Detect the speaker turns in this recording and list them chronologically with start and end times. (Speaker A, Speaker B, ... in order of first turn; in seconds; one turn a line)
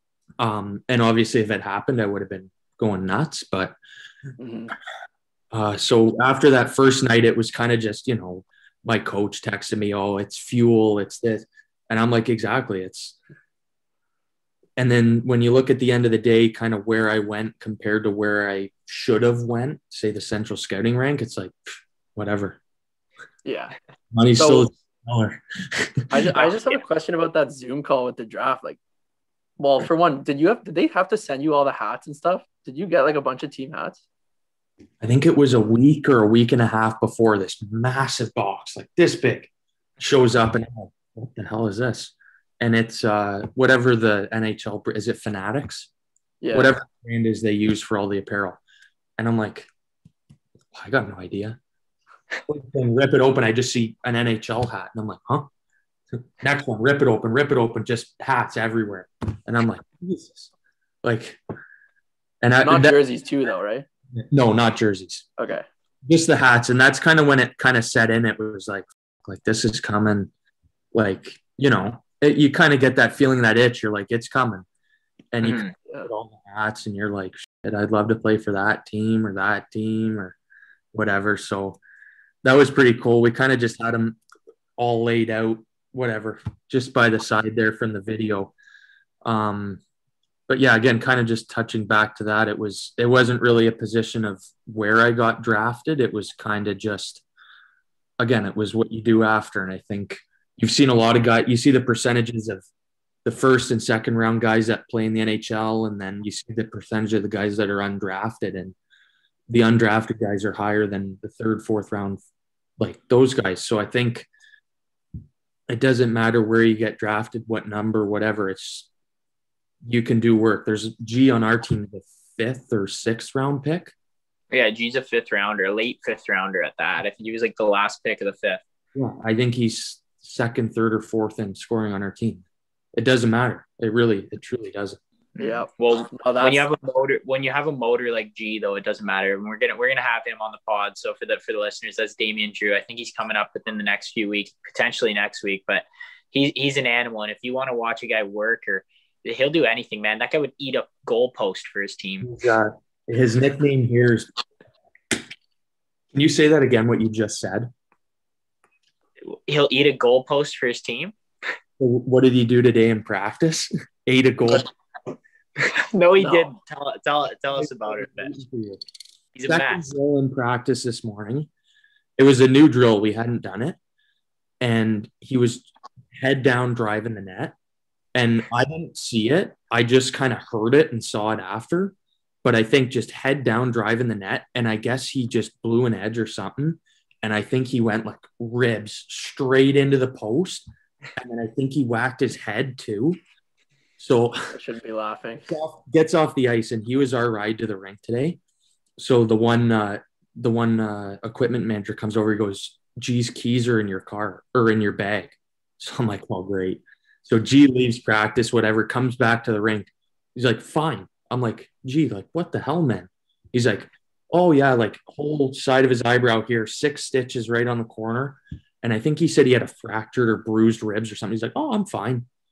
Speaker A: 0.4-3.8
Speaker B: 4.4-4.7
Speaker A: 5.5-13.2
Speaker A: 14.8-21.6
Speaker A: 22.1-22.6
Speaker B: 23.4-23.7
Speaker A: 24.1-26.5
Speaker B: 24.4-24.7
Speaker B: 26.1-28.8
Speaker B: 29.6-34.0
Speaker A: 35.0-45.9
Speaker B: 46.4-46.7
Speaker A: 46.5-48.6
Speaker A: 49.2-49.7
Speaker A: 50.7-51.6
Speaker A: 52.5-55.5
Speaker A: 56.4-60.5
Speaker A: 61.0-61.4
Speaker A: 62.4-63.0
Speaker B: 62.6-63.9
Speaker A: 64.2-65.3
Speaker B: 65.4-65.7
Speaker A: 66.1-70.3
Speaker A: 70.9-74.7
Speaker A: 75.3-80.4
Speaker C: 75.4-75.7
Speaker A: 80.9-81.8
Speaker A: 82.4-84.2
Speaker A: 84.8-88.5
Speaker A: 89.2-89.8
Speaker A: 90.5-97.2
Speaker A: 98.2-102.7
Speaker A: 103.2-108.8
Speaker A: 109.5-112.2
Speaker A: 112.8-114.3
Speaker A: 115.7-118.9
Speaker A: 119.8-123.9
Speaker C: 124.5-128.6
Speaker A: 128.9-132.4
Speaker A: 133.0-135.0
Speaker C: 135.4-152.3
Speaker B: 135.4-136.7
Speaker A: 152.2-154.3
Speaker A: 156.1-157.7
Speaker C: 159.3-161.1
Speaker A: 161.8-164.7
Speaker C: 165.6-168.4
Speaker B: 166.2-166.6
Speaker A: 167.6-168.8
Speaker C: 169.3-169.8
Speaker A: 169.5-171.5
Speaker A: 172.2-173.8
Speaker A: 174.6-177.5
Speaker A: 178.2-193.2
Speaker A: 194.0-194.6
Speaker B: 194.5-195.5
Speaker A: 195.5-198.4
Speaker A: 199.0-222.3